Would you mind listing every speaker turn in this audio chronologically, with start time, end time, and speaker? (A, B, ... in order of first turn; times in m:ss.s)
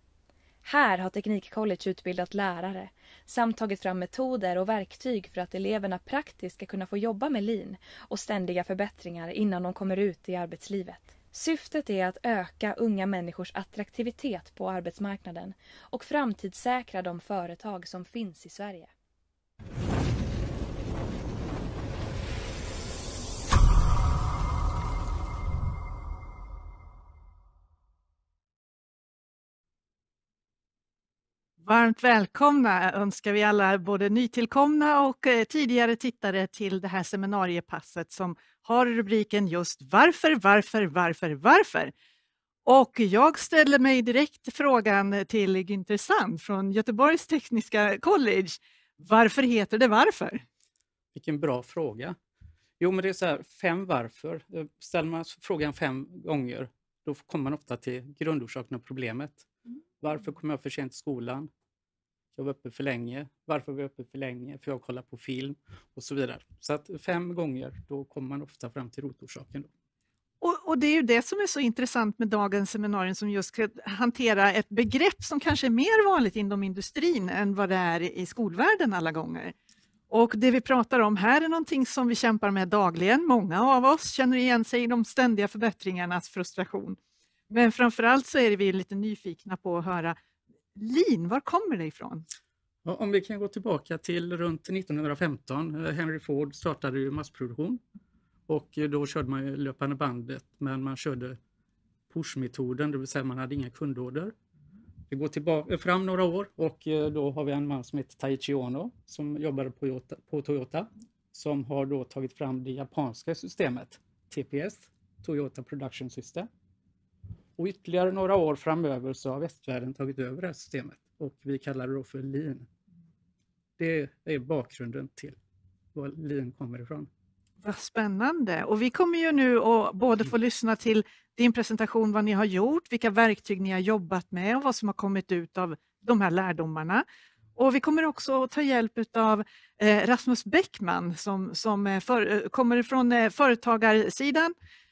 0:00.6-0:18.9 A
0:31.6-0:41.9 B
0:42.6-0:50.4 B
0:51.1-0:52.2 C
0:52.8-0:59.5 C
1:00.0-1:01.5 C
1:02.3-1:09.7 C
1:10.4-1:19.5 B
1:20.1-1:27.0 B
1:27.5-1:30.2 B
1:30.8-1:32.2 B
1:32.8-1:37.8 C
1:38.5-1:41.4 C
1:42.1-1:44.3 C
1:45.1-1:56.5 C
1:57.6-2:02.7 C
2:03.8-2:05.4 C
2:05.9-2:07.1 C
2:07.6-2:17.0 B
2:17.6-2:24.5 B